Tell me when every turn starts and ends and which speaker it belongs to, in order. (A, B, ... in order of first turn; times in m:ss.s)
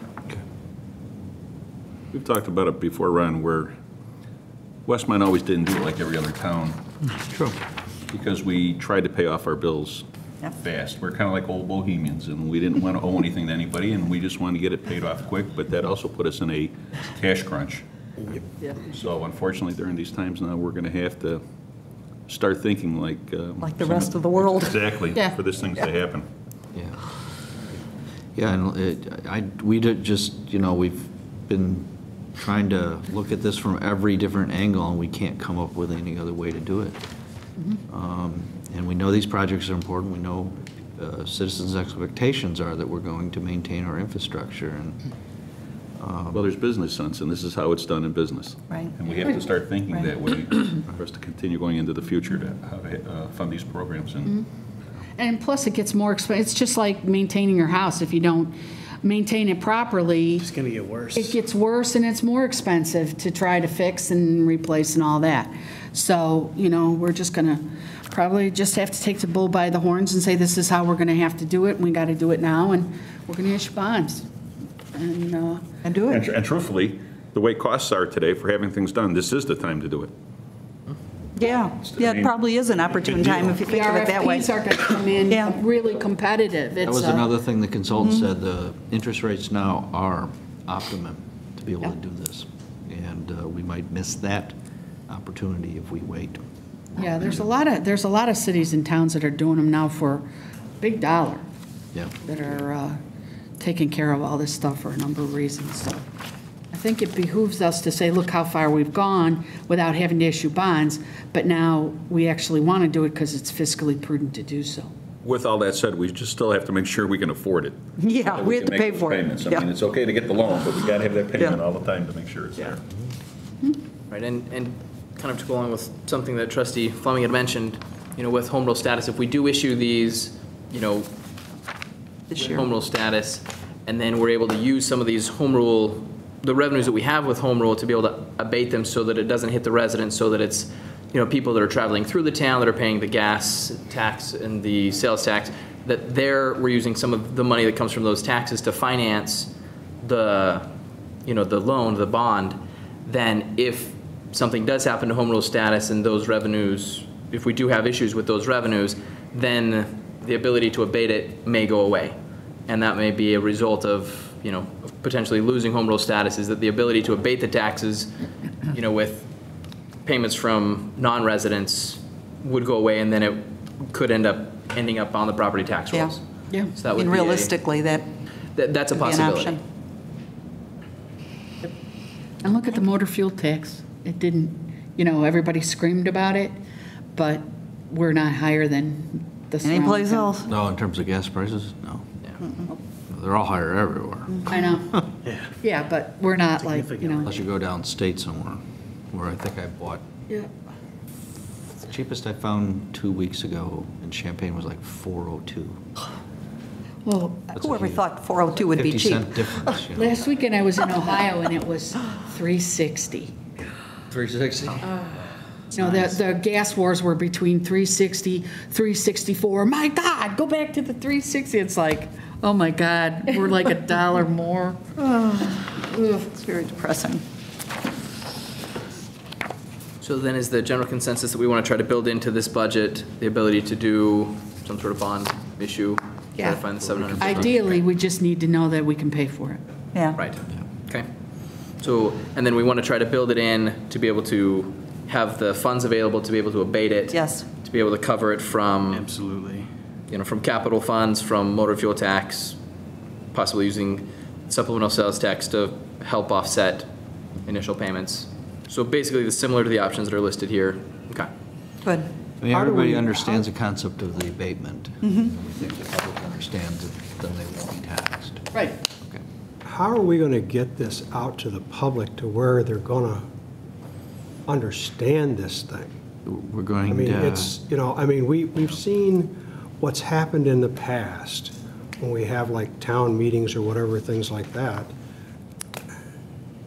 0:02.1-0:03.7 A
0:04.8-0:06.8 A
0:07.2-0:07.6 B
0:08.1-0:21.4 A
0:22.3-0:26.2 A
0:23.6-0:24.8 C
0:26.7-0:27.2 B
0:28.4-0:37.0 B
0:37.9-0:45.0 B
0:46.0-0:46.5 B
0:46.3-0:54.4 A
0:55.2-1:00.5 D
1:00.4-1:01.3 E
1:01.1-1:14.3 D
1:14.9-1:15.6 D
1:15.8-1:16.2 C
1:16.1-1:20.1 A
1:21.4-1:25.6 C
1:21.4-1:22.4 A
1:23.6-1:27.3 D
1:26.8-1:34.6 B
1:35.1-1:36.4 B
1:37.0-1:40.2 D
1:37.0-1:37.4 B
1:40.8-1:41.4 D
1:42.2-1:43.0 D
1:43.6-1:46.0 D
1:46.7-1:54.9 D
1:55.2-2:02.8 A
1:58.0-1:59.7 C
2:04.1-2:11.1 F
2:12.3-2:30.7 F
2:31.2-2:42.2 F
2:42.7-2:48.1 F
2:48.7-2:49.3 F
2:50.0-2:57.5 F
2:57.0-2:58.1 C
2:58.5-2:59.6 F
2:59.0-2:59.6 C
3:02.4-3:06.5 D
3:07.1-3:10.3 D
3:09.6-3:10.5 C
3:10.4-3:12.1 B
3:13.1-3:14.7 B
3:14.4-3:15.0 D
3:15.2-3:15.5 E
3:15.6-3:17.3 D
3:16.6-3:17.4 E
3:17.2-3:20.0 B
3:21.8-3:25.8 B
3:27.1-3:29.2 C
3:27.5-3:28.0 B
3:28.6-3:30.2 B
3:29.9-3:33.3 D
3:34.1-3:35.0 B
3:35.7-3:45.0 D
3:35.8-3:36.1 B
3:45.0-3:45.6 C
3:46.3-3:47.2 C
3:50.0-3:57.8 F
3:56.8-3:57.5 B
3:57.2-3:59.6 D
4:00.1-4:01.1 F
4:01.8-4:09.1 F
4:07.1-4:07.4 C
4:08.9-4:09.7 E
4:10.1-4:12.6 F
4:13.3-4:16.9 F
4:17.4-4:21.3 F
4:22.4-4:29.2 B
4:22.5-4:23.4 G
4:28.5-4:28.8 D
4:29.6-4:33.2 G
4:34.5-4:35.9 G
4:36.2-4:37.6 B
4:36.9-4:44.9 G